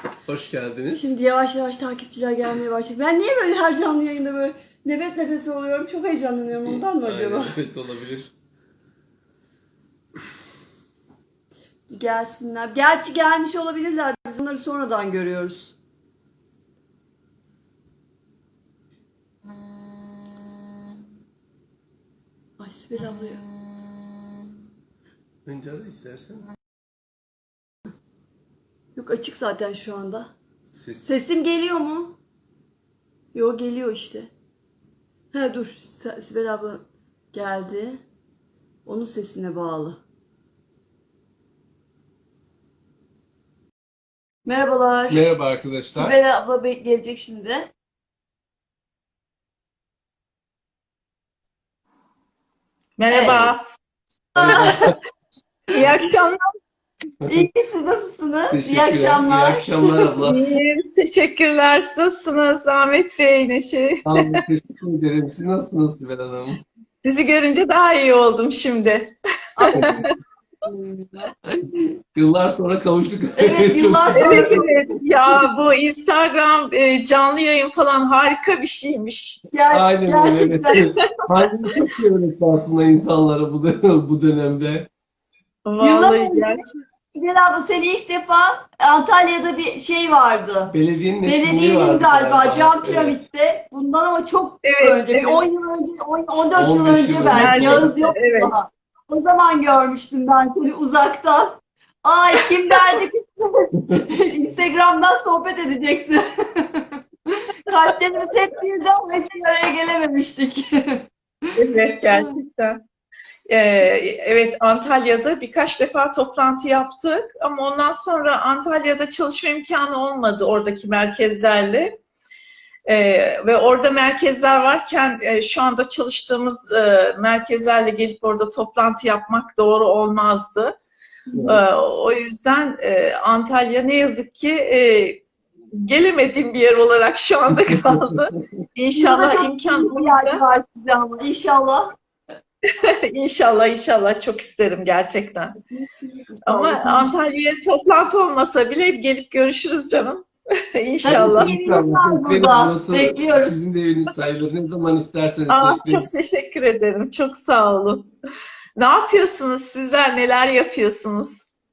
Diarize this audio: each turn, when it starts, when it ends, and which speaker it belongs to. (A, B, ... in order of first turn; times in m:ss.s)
0:00.3-0:01.1 A
0:00.9-0:07.6 B
0:06.6-0:08.3 A
0:11.9-0:15.8 B
0:22.6-0:23.4 B
0:25.4-0:26.5 A
0:29.0-0:30.3 B
0:30.8-0:31.0 A
0:31.0-0:32.2 B
0:33.3-0:34.3 B
0:35.3-0:38.0 B
0:38.9-0:40.0 B
0:44.4-0:45.2 B
0:45.1-0:46.2 A
0:45.9-0:47.7 B
0:53.0-0:53.6 C
0:53.1-0:53.4 B
0:53.2-0:53.6 A
0:54.4-0:54.9 A
0:54.4-0:55.0 B
0:54.4-0:54.7 C
0:55.7-0:56.4 C
0:57.3-0:59.9 B
0:58.5-1:00.4 A
1:00.2-1:04.4 C
1:04.0-1:06.6 A
1:07.0-1:10.1 C
1:09.6-1:11.9 B
1:12.1-1:15.0 A
1:13.4-1:14.7 B
1:14.1-1:19.4 C
1:19.5-1:21.1 B
1:19.7-1:24.9 A
1:25.6-1:26.6 C
1:25.8-1:26.6 B
1:27.1-1:51.1 B
1:30.7-1:33.2 A
1:34.6-1:35.4 C
1:36.6-1:37.9 A
1:37.3-1:38.5 C
1:51.5-1:52.8 C
1:53.5-2:02.0 C
2:02.9-2:10.8 C
2:11.3-2:11.6 A
2:11.4-2:20.4 C
2:17.7-2:18.4 A
2:18.9-2:21.9 B
2:22.8-2:25.6 C
2:25.7-2:27.1 B
2:26.5-2:31.5 C
2:31.0-2:33.6 B
2:31.0-2:36.2 A
2:35.5-2:38.1 C
2:38.8-2:41.5 C